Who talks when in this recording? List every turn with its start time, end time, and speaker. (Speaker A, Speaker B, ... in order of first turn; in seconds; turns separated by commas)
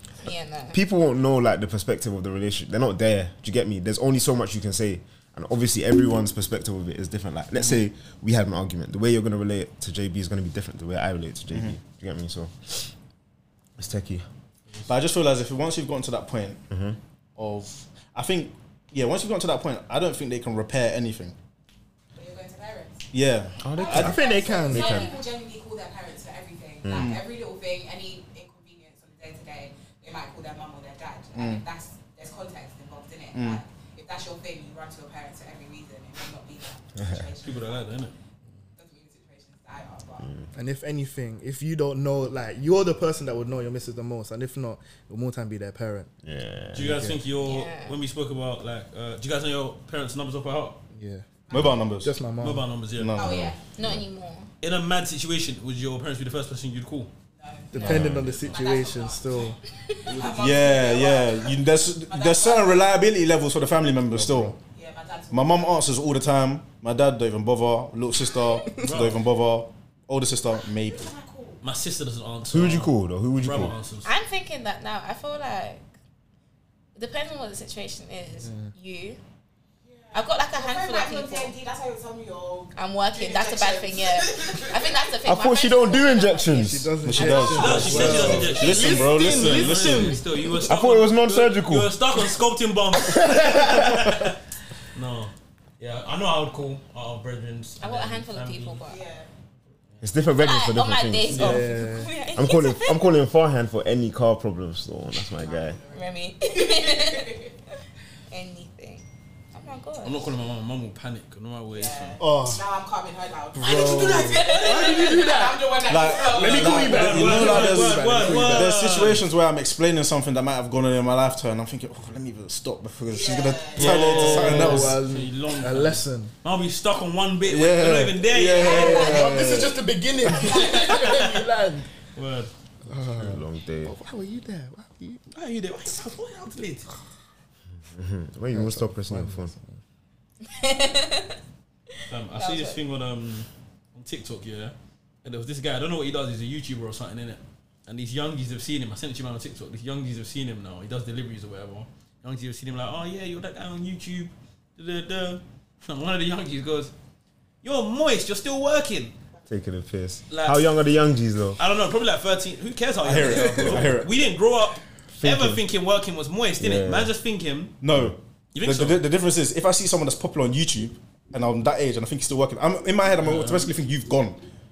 Speaker A: 0.2-0.8, Speaker B: 0.7-12.5, Speaker C: 11.5-11.8, Speaker B: 13.8-14.3, Speaker C: 14.9-16.6, Speaker B: 16.7-17.0, Speaker C: 17.4-21.4, Speaker D: 22.1-23.1, Speaker C: 23.1-24.1, Speaker B: 23.6-25.1, Speaker D: 23.8-38.1, Speaker E: 23.9-25.0, Speaker A: 24.8-25.1, Speaker B: 26.8-27.2, Speaker C: 26.9-27.2, Speaker C: 31.3-31.6, Speaker C: 33.3-33.6, Speaker F: 37.4-38.1, Speaker D: 38.8-40.3, Speaker B: 40.2-40.5, Speaker E: 40.5-46.1, Speaker B: 46.2-47.1, Speaker F: 46.7-50.8, Speaker E: 46.8-47.2, Speaker A: 47.4-48.0, Speaker E: 50.9-52.7, Speaker D: 51.5-51.8, Speaker C: 51.5-52.1, Speaker F: 52.4-53.1, Speaker C: 53.0-53.5, Speaker D: 53.2-53.5, Speaker A: 53.2-54.5, Speaker F: 54.6-57.1, Speaker D: 57.4-62.9, Speaker E: 57.7-59.6, Speaker C: 57.8-58.1, Speaker B: 57.8-58.4, Speaker C: 60.2-64.6, Speaker E: 64.1-64.5, Speaker D: 64.6-65.7, Speaker C: 65.3-71.1, Speaker F: 68.8-69.2, Speaker D: 70.8-71.6, Speaker F: 71.6-74.1, Speaker B: 72.5-73.8, Speaker A: 74.0-75.8, Speaker A: 77.0-79.2, Speaker E: 78.4-78.7, Speaker D: 79.9-85.1, Speaker A: 80.1-81.5, Speaker A: 82.7-86.7, Speaker B: 85.2-87.0, Speaker E: 86.5-90.2, Speaker C: 87.0-90.3, Speaker D: 87.2-88.9, Speaker F: 87.5-94.4, Speaker B: 90.7-92.0, Speaker B: 93.0-94.1, Speaker F: 94.9-98.8, Speaker A: 97.8-99.0, Speaker D: 98.9-99.3, Speaker B: 100.0-101.6, Speaker A: 100.4-103.1, Speaker F: 101.3-101.6, Speaker E: 101.3-102.1, Speaker B: 102.3-105.8, Speaker D: 105.2-107.5, Speaker A: 105.9-107.3, Speaker A: 108.3-110.3, Speaker F: 110.0-112.2, Speaker D: 111.7-117.4, Speaker E: 112.2-112.7, Speaker E: 113.5-118.8, Speaker A: 114.3-115.3, Speaker C: 114.7-115.0, Speaker C: 115.8-125.0, Speaker F: 116.4-119.3, Speaker D: 123.1-124.2, Speaker F: 123.8-129.3, Speaker E: 123.8-126.3, Speaker C: 127.5-129.8, Speaker D: 128.5-129.3, Speaker E: 128.6-131.9, Speaker D: 130.3-130.9, Speaker F: 130.9-131.2, Speaker F: 132.2-132.5, Speaker E: 132.9-135.2, Speaker B: 132.9-133.9, Speaker F: 135.3-136.9, Speaker B: 137.9-139.5, Speaker E: 138.5-139.8, Speaker A: 140.4-141.4, Speaker F: 142.1-156.9, Speaker A: 142.3-142.8, Speaker F: 157.6-159.1, Speaker B: 159.5-161.6, Speaker F: 160.3-160.7, Speaker F: 161.6-167.8, Speaker C: 163.0-164.1, Speaker E: 163.2-163.8, Speaker B: 165.2-165.6, Speaker B: 166.6-167.1, Speaker C: 167.8-174.4, Speaker F: 168.5-169.0, Speaker F: 173.2-173.7